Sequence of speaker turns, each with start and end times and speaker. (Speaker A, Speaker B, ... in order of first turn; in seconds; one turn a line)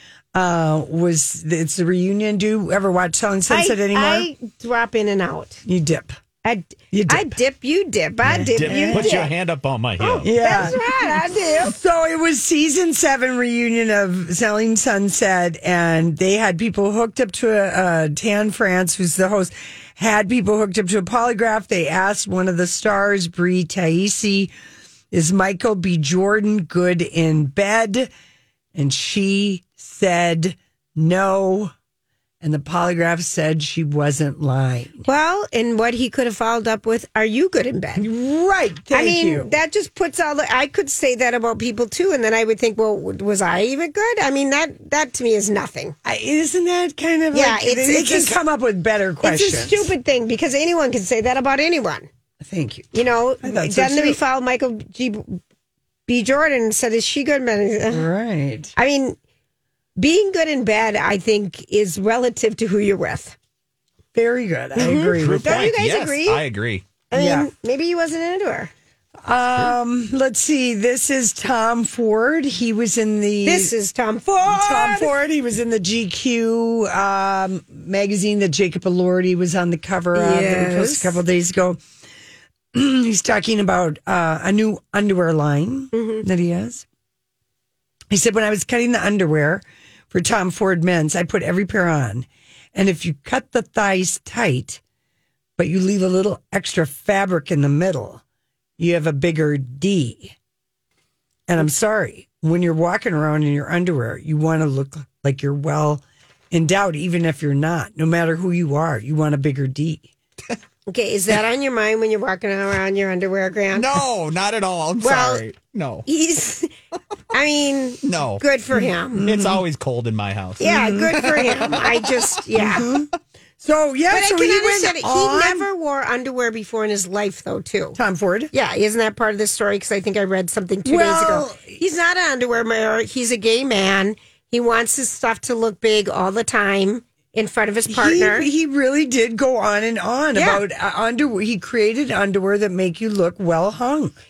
Speaker A: 0.3-4.3
Speaker B: 3.5-5.6
Speaker A: 5.7-6.2
Speaker B: 6.4-9.3
Speaker A: 6.9-7.3
Speaker C: 8.2-10.7
Speaker A: 8.2-9.3
Speaker B: 10.0-11.8
Speaker A: 10.2-24.5
Speaker A: 25.1-28.1
Speaker A: 28.7-31.7
Speaker A: 32.4-35.0
Speaker B: 35.0-38.0
Speaker A: 38.0-39.5
Speaker B: 38.9-45.9
Speaker A: 46.0-49.9
Speaker B: 47.3-48.4
Speaker B: 49.2-52.1
Speaker A: 52.4-52.9
Speaker B: 52.9-55.4
Speaker A: 53.4-54.2
Speaker B: 56.1-58.1
Speaker A: 57.9-58.7
Speaker B: 58.8-59.2
Speaker B: 60.0-63.4
Speaker A: 64.1-65.7
Speaker B: 64.8-66.4
Speaker C: 65.1-66.9
Speaker B: 67.1-68.7
Speaker A: 67.1-67.5
Speaker A: 69.2-73.7
Speaker B: 73.4-75.2
Speaker A: 74.4-81.8
Speaker B: 80.1-81.2
Speaker A: 82.7-86.8
Speaker B: 85.9-86.2
Speaker A: 88.1-94.8
Speaker A: 95.6-98.2
Speaker A: 98.8-100.3
Speaker A: 101.5-110.1
Speaker B: 110.9-114.0
Speaker C: 113.7-116.1
Speaker B: 115.0-115.4
Speaker B: 116.0-116.7
Speaker B: 117.3-119.2
Speaker C: 118.0-118.4
Speaker A: 118.7-119.6
Speaker C: 119.2-121.9
Speaker B: 120.6-122.9
Speaker A: 120.6-121.8
Speaker A: 122.5-123.1
Speaker A: 123.6-125.7
Speaker B: 124.1-128.0
Speaker A: 128.0-128.5
Speaker B: 128.5-138.5
Speaker A: 130.8-131.8
Speaker A: 137.9-144.1
Speaker B: 140.3-140.6